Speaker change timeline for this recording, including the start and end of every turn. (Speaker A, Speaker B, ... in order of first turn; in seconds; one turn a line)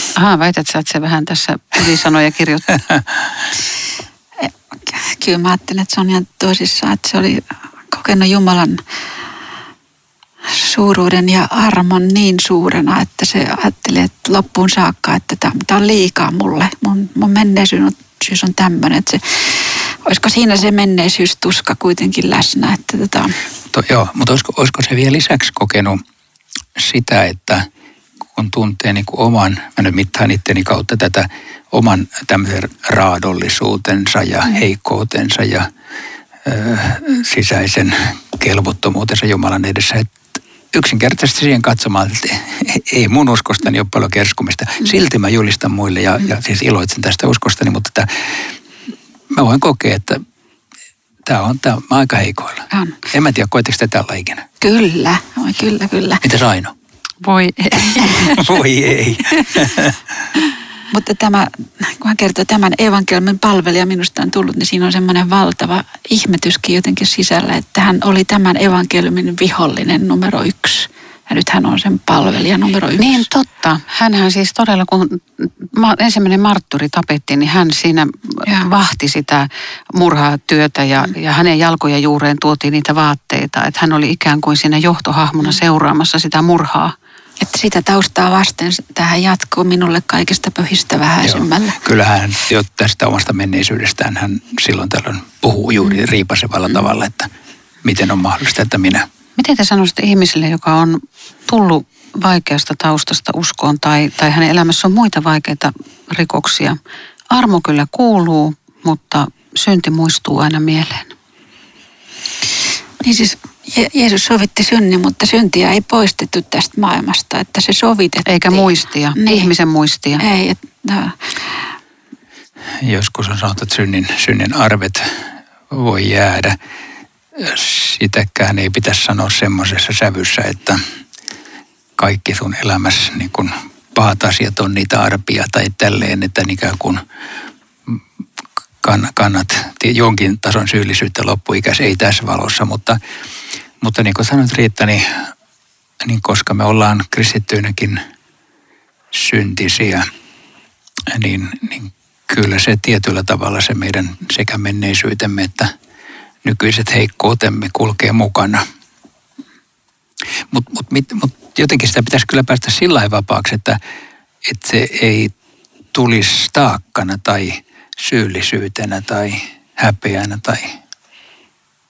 Speaker A: 0.2-2.7
Speaker B: 4.4-8.8
Speaker B: 10.4-23.4
Speaker C: 23.7-26.0
Speaker C: 26.8-27.7
Speaker C: 28.4-35.7
Speaker C: 36.5-48.4
Speaker C: 49.3-50.2
Speaker C: 51.2-54.5
Speaker B: 52.7-53.0
Speaker B: 54.6-56.2
Speaker C: 56.2-56.7
Speaker A: 57.2-58.4
Speaker C: 58.1-60.0
Speaker B: 60.9-73.3
Speaker A: 73.0-87.0
Speaker B: 87.4-91.8
Speaker C: 91.2-97.3
Speaker C: 97.8-99.1
Speaker A: 99.4-106.8
Speaker A: 107.3-111.1
Speaker B: 113.0-119.5
Speaker A: 118.3-120.2
Speaker B: 120.2-121.2
Speaker C: 122.8-125.0
Speaker C: 125.7-126.6
Speaker C: 127.4-130.8
Speaker C: 132.0-137.0
Speaker C: 138.8-143.0
Speaker C: 143.8-145.2
Speaker C: 146.0-148.0
Speaker C: 149.1-150.1
Speaker C: 151.1-155.7
Speaker C: 156.4-158.6
Speaker C: 160.5-163.8
Speaker C: 164.4-165.3
Speaker C: 165.9-170.8